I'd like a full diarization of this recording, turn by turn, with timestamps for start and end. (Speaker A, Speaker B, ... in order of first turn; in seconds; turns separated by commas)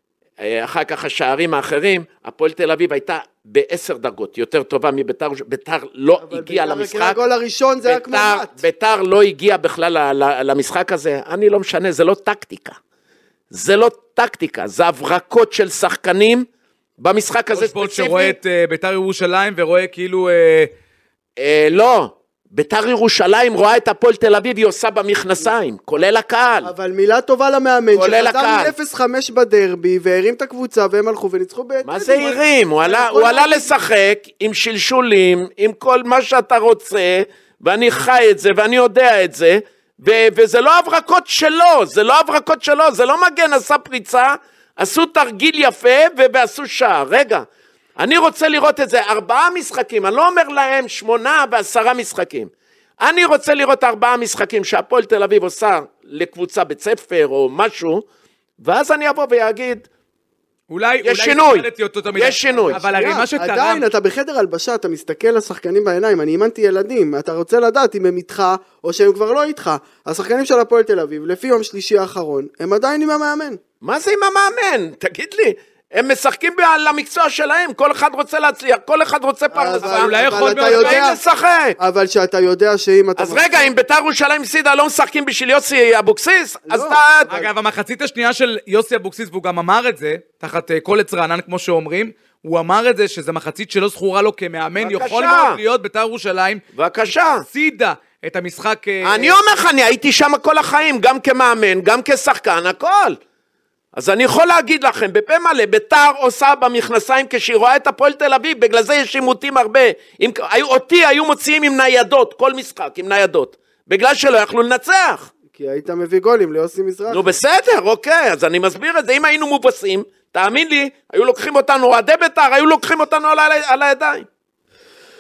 Speaker A: 0.4-7.2, Speaker B: 6.2-8.6, Speaker A: 7.8-12.8, Speaker A: 13.5-16.5, Speaker A: 17.0-18.4, Speaker C: 17.5-20.7, Speaker A: 21.4-26.7, Speaker B: 26.6-33.7, Speaker A: 27.9-28.8, Speaker A: 31.8-47.5, Speaker A: 48.0-58.0, Speaker A: 58.6-59.9, Speaker C: 60.7-63.9, Speaker A: 61.0-62.8, Speaker B: 62.5-73.6, Speaker A: 73.8-81.8, Speaker B: 79.5-81.2, Speaker C: 79.8-81.0, Speaker B: 81.8-83.7, Speaker A: 83.2-87.3, Speaker B: 86.7-87.5, Speaker C: 87.3-96.6, Speaker A: 94.8-95.6, Speaker A: 96.7-97.5, Speaker C: 97.4-99.4, Speaker A: 99.0-103.2, Speaker A: 103.9-115.3, Speaker B: 115.5-117.3, Speaker A: 117.1-124.3